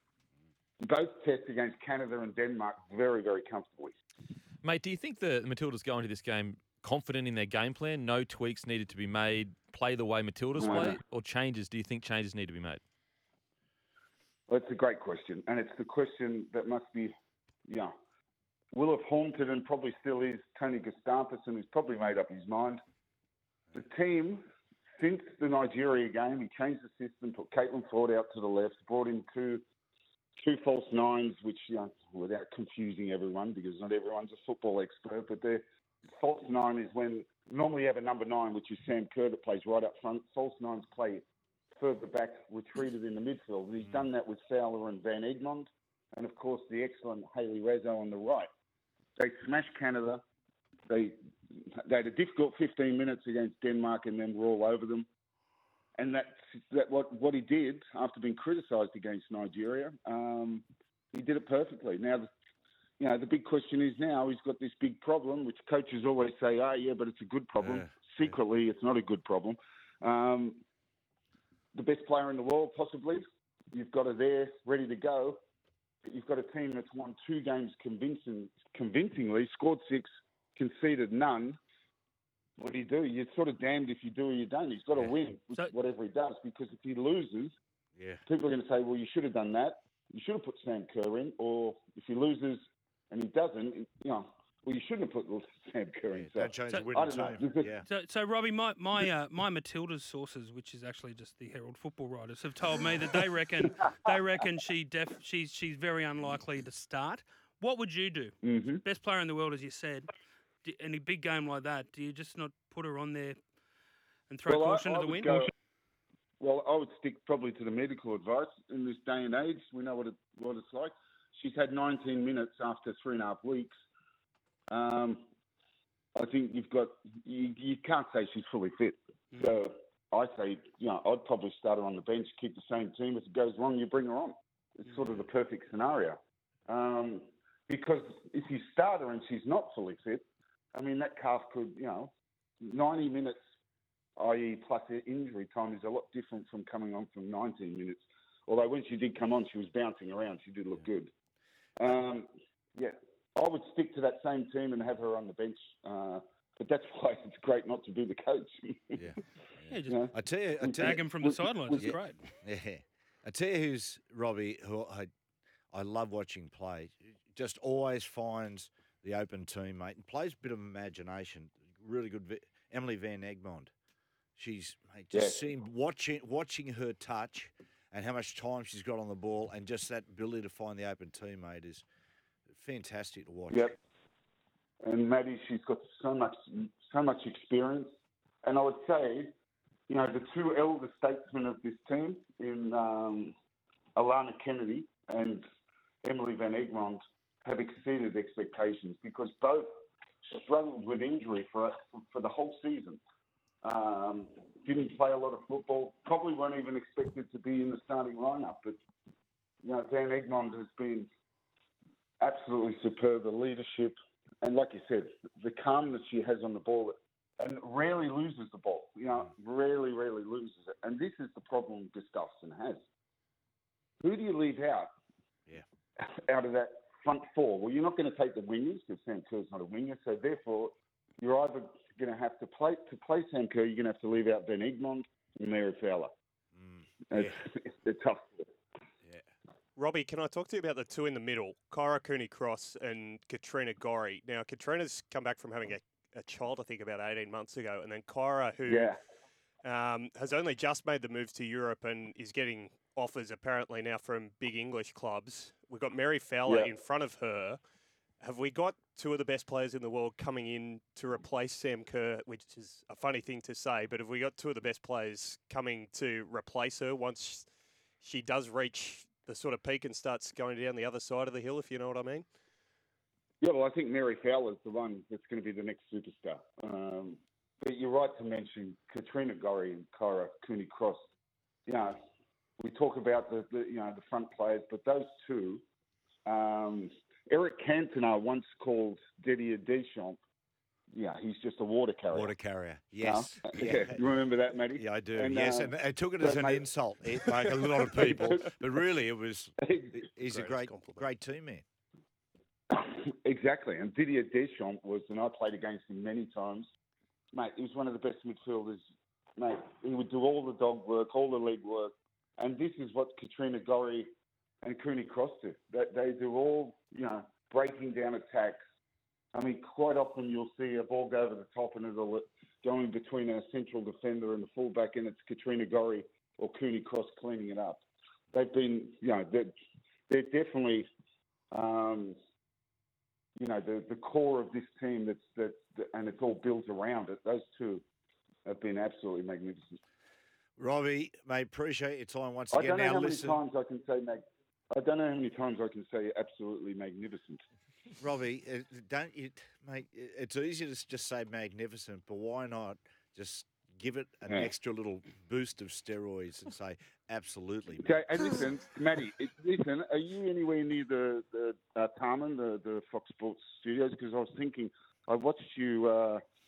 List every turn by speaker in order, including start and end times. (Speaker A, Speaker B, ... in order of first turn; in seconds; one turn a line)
Speaker A: 0.8-3.9
Speaker B: 4.6-12.8
Speaker A: 10.5-11.0
Speaker A: 14.5-17.1
Speaker A: 17.7-17.9
Speaker A: 18.7-22.8
Speaker A: 23.7-24.4
Speaker A: 25.0-29.6
Speaker A: 30.4-41.2
Speaker A: 41.8-48.5
Speaker A: 49.2-50.2
Speaker A: 50.9-55.1
Speaker A: 56.0-62.3
Speaker A: 63.0-70.6
Speaker C: 67.6-68.3
Speaker A: 71.7-75.4
Speaker A: 76.0-81.6
Speaker A: 82.6-87.5
Speaker C: 88.0-88.2
Speaker A: 88.2-97.7
Speaker C: 96.1-97.8
Speaker D: 96.7-96.9
Speaker D: 97.9-110.1
Speaker A: 108.4-108.8
Speaker D: 110.6-113.4
Speaker D: 114.3-115.4
Speaker A: 114.4-115.5
Speaker A: 116.4-123.7
Speaker A: 124.7-125.2
Speaker A: 126.2-140.2
Speaker A: 140.7-143.4
Speaker A: 144.2-151.1
Speaker A: 151.8-159.0
Speaker D: 159.7-160.0
Speaker A: 159.8-161.9
Speaker C: 159.9-161.1
Speaker D: 160.8-162.2
Speaker C: 161.7-165.1
Speaker C: 165.7-173.7
Speaker C: 174.3-181.8
Speaker A: 175.1-175.4
Speaker C: 182.5-183.7
Speaker A: 183.5-183.8
Speaker A: 184.8-187.9
Speaker A: 188.4-189.3
Speaker A: 189.9-193.3
Speaker A: 193.9-195.4
Speaker A: 196.0-199.7
Speaker A: 200.3-203.0
Speaker A: 203.6-208.8
Speaker A: 209.6-211.1
Speaker A: 212.2-222.8
Speaker A: 224.0-224.9
Speaker A: 226.0-236.1
Speaker C: 236.6-237.4
Speaker A: 237.1-238.5
Speaker E: 239.8-248.9
Speaker A: 248.7-248.9
Speaker E: 249.6-257.6
Speaker A: 256.4-256.7
Speaker E: 258.2-272.3
Speaker A: 273.4-281.0
Speaker A: 281.7-281.9
Speaker A: 282.6-285.6
Speaker A: 286.2-290.2
Speaker A: 290.9-292.3
Speaker C: 292.1-294.0
Speaker A: 293.0-296.6
Speaker C: 294.7-301.6
Speaker A: 297.9-298.5
Speaker A: 299.6-300.0
Speaker E: 300.3-301.0
Speaker A: 302.7-306.7
Speaker A: 307.3-308.8
Speaker A: 309.4-314.1
Speaker A: 314.6-318.6
Speaker A: 319.3-329.5
Speaker A: 330.1-330.9
Speaker A: 331.5-332.1
Speaker A: 333.4-337.8
Speaker A: 338.4-339.8
Speaker C: 340.6-343.4
Speaker A: 342.5-344.2
Speaker A: 344.7-347.4
Speaker C: 348.0-358.3
Speaker A: 357.8-366.2